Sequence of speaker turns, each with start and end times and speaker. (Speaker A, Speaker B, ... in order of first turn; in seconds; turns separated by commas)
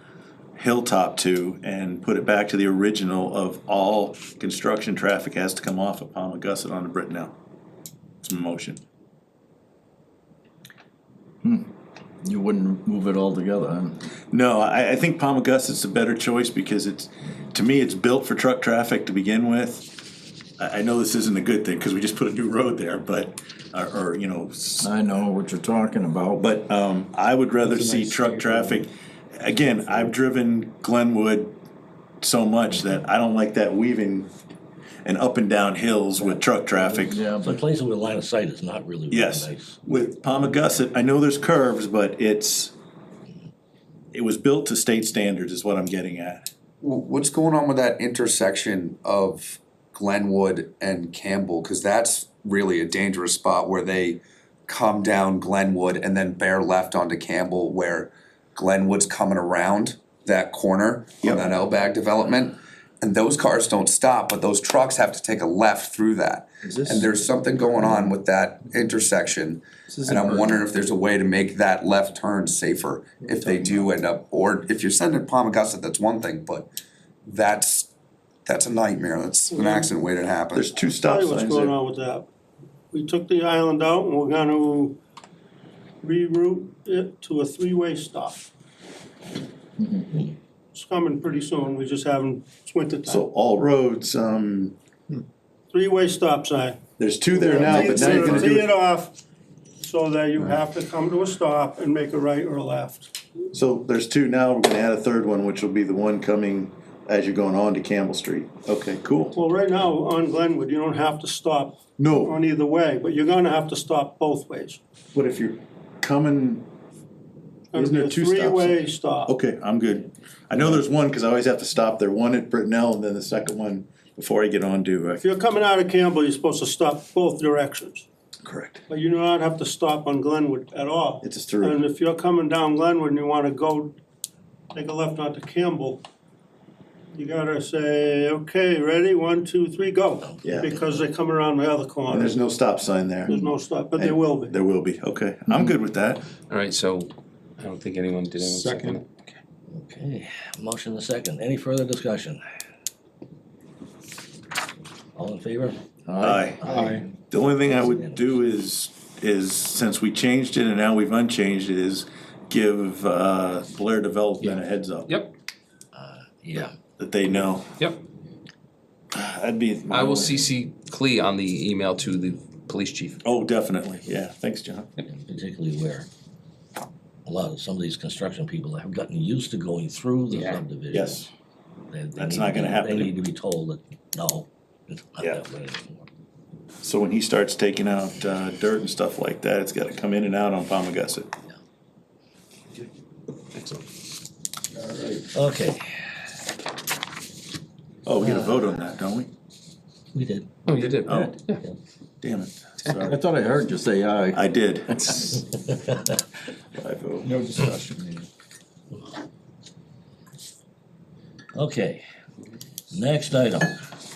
Speaker A: 0.6-7.3, Speaker A: 8.2-8.8, Speaker B: 12.2-14.0, Speaker A: 14.3-24.9, Speaker B: 24.8-26.5, Speaker A: 26.4-31.5, Speaker B: 27.9-28.6, Speaker A: 32.2-34.3, Speaker A: 35.0-37.2, Speaker C: 36.2-39.7, Speaker B: 37.1-37.6, Speaker A: 39.1-42.7, Speaker A: 44.1-46.5, Speaker D: 46.8-76.7, Speaker A: 61.2-61.5, Speaker B: 70.0-70.6, Speaker D: 77.2-77.9, Speaker D: 78.4-80.7, Speaker E: 79.5-79.8, Speaker A: 80.5-81.7, Speaker E: 81.0-82.3, Speaker E: 82.9-85.0, Speaker E: 86.0-88.5, Speaker B: 89.8-90.2, Speaker E: 90.7-93.2, Speaker A: 93.1-94.8, Speaker E: 95.7-96.8, Speaker A: 97.0-98.7, Speaker E: 97.3-99.2, Speaker E: 99.8-103.1, Speaker A: 103.5-109.3, Speaker E: 109.3-114.8, Speaker A: 112.0-112.4, Speaker A: 115.1-116.7, Speaker E: 117.7-119.3, Speaker A: 117.7-125.2, Speaker E: 125.2-128.1, Speaker A: 128.4-128.8, Speaker E: 128.9-134.0, Speaker A: 131.2-131.8, Speaker E: 134.7-136.0, Speaker E: 137.1-142.3, Speaker C: 140.2-140.9, Speaker A: 140.4-140.7, Speaker A: 142.1-143.4, Speaker E: 143.3-144.6, Speaker A: 144.0-146.2, Speaker F: 146.5-149.1, Speaker C: 149.7-152.4, Speaker C: 155.1-155.8, Speaker B: 156.1-157.0, Speaker A: 156.2-165.1, Speaker C: 156.6-157.1, Speaker C: 157.7-158.3, Speaker F: 164.4-165.3, Speaker C: 165.9-166.7, Speaker A: 167.0-167.7, Speaker A: 169.1-170.5, Speaker F: 169.9-173.2, Speaker A: 173.2-174.9, Speaker C: 175.1-176.1, Speaker C: 177.2-181.3, Speaker F: 180.3-180.6, Speaker A: 180.9-181.3, Speaker C: 181.9-186.1, Speaker A: 182.1-183.1, Speaker A: 186.8-191.3, Speaker F: 193.5-193.8, Speaker C: 195.3-195.8, Speaker A: 198.0-199.3, Speaker C: 200.1-200.6, Speaker F: 200.7-201.6, Speaker A: 201.1-201.3, Speaker A: 202.2-203.2, Speaker B: 203.0-205.3, Speaker A: 204.3-205.3, Speaker A: 206.7-207.3, Speaker C: 207.4-208.1, Speaker C: 211.5-212.0, Speaker C: 212.9-213.8